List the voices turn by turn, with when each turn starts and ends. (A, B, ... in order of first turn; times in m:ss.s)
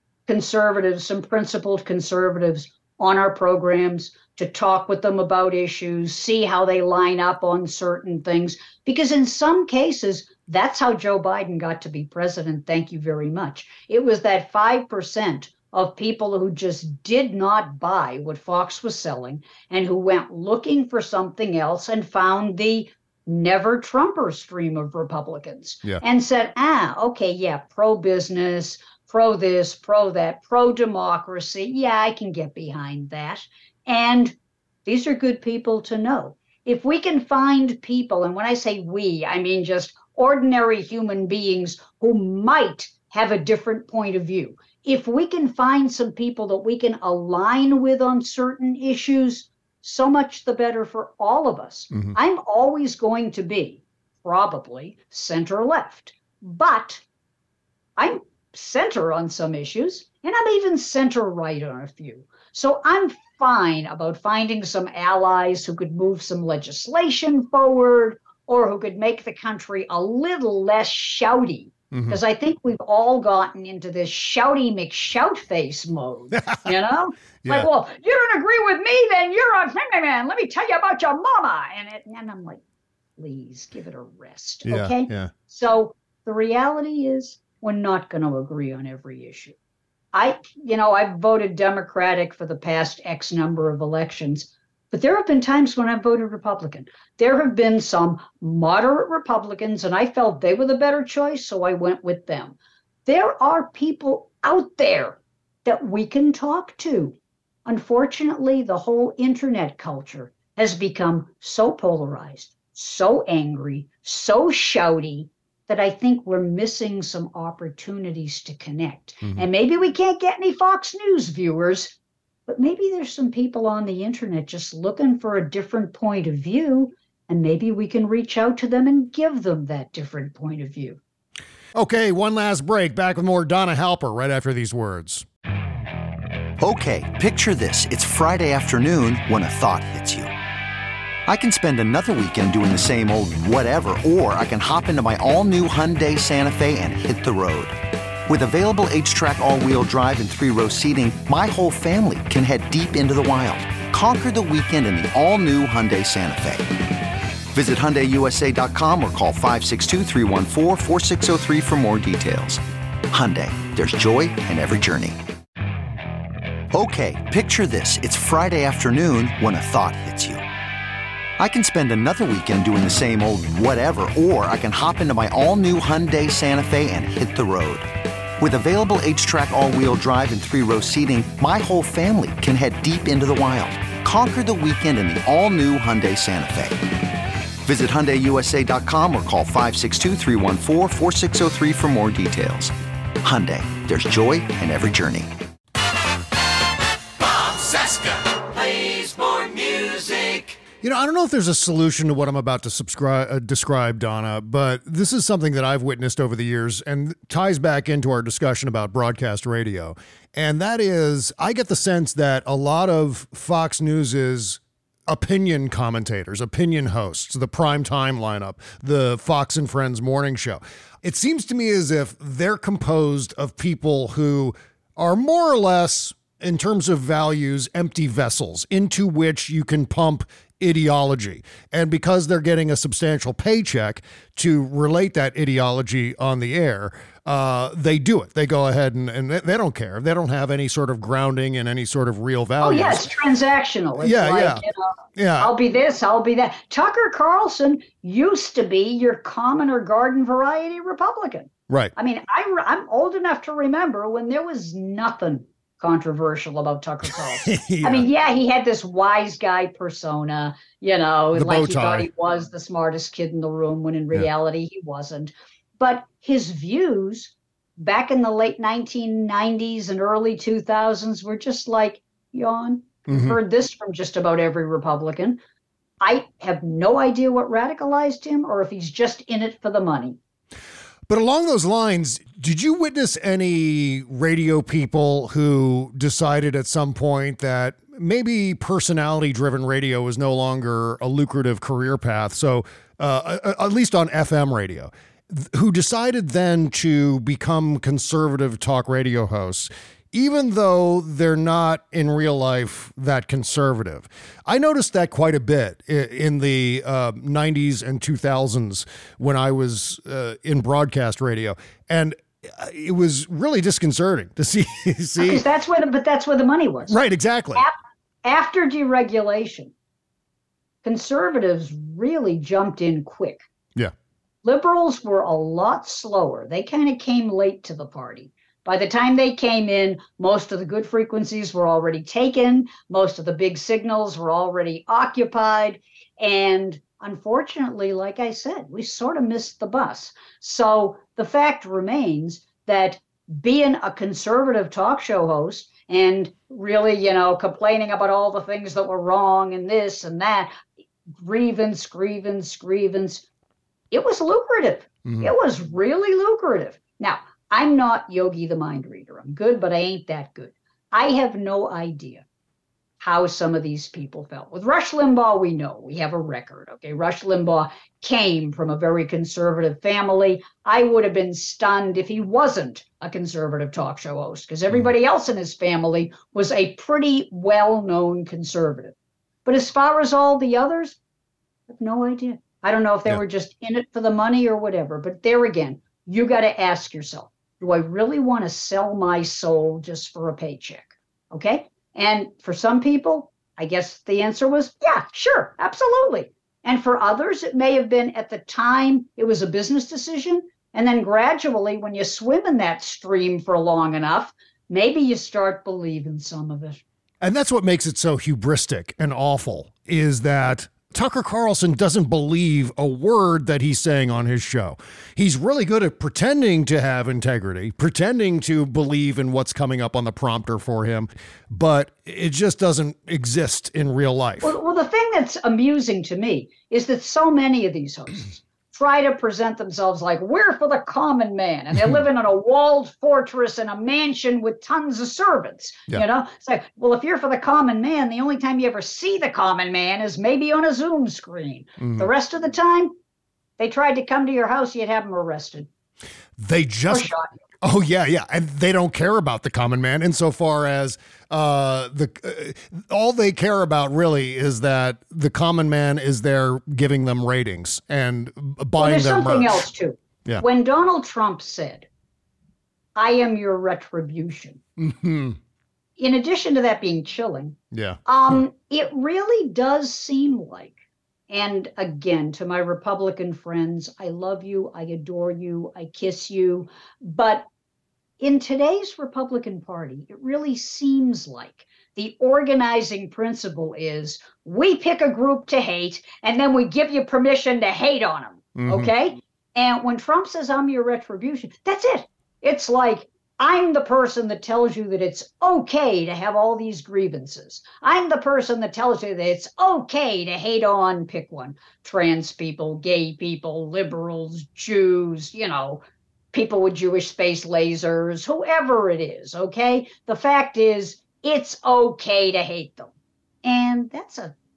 0:00.3-0:57.0 A
0:58.0-1:22.6 A
1:11.9-1:12.2 B
1:17.4-1:17.7 B
1:23.2-1:29.5 A
1:24.6-1:25.3 B
1:30.1-1:47.1 A
1:47.6-2:02.0 A
2:02.5-2:11.0 A
2:11.7-2:15.2 B
2:16.6-2:20.3 C
2:21.3-2:27.7 C
2:28.3-2:36.6 C
2:37.5-2:45.2 C
2:46.7-2:50.4 C
2:51.4-2:57.8 C
2:58.4-3:06.8 C
3:07.6-3:15.3 C
3:20.8-4:03.1 B
4:02.6-4:35.4 A
4:04.0-4:04.6 B
4:05.2-4:05.5 B
4:17.4-4:18.1 B
4:21.3-4:22.1 B
4:33.1-4:33.4 B
4:36.0-4:40.2 A
4:41.1-5:15.4 B
5:15.2-5:16.9 A
5:16.9-5:17.6 B
5:17.6-5:19.7 A
5:20.8-5:23.4 A
5:24.4-5:50.5 A
5:51.2-5:53.2 A
5:53.9-6:02.2 A
5:55.0-5:55.3 B
6:03.0-6:18.9 A
6:19.4-6:21.0 A
6:21.7-6:46.8 A
6:47.2-7:04.5 B
7:04.4-7:22.9 A
7:21.8-7:22.1 B
7:23.6-7:25.7 A
7:26.4-7:39.7 B
7:26.9-7:27.3 A
7:38.8-7:41.9 A
7:43.0-7:44.6 A
7:44.8-7:45.4 B
7:46.0-7:50.8 A
7:47.7-7:48.4 B
7:51.3-7:57.5 A
7:58.2-8:32.9 A
8:08.6-8:08.9 B
8:33.4-8:34.3 A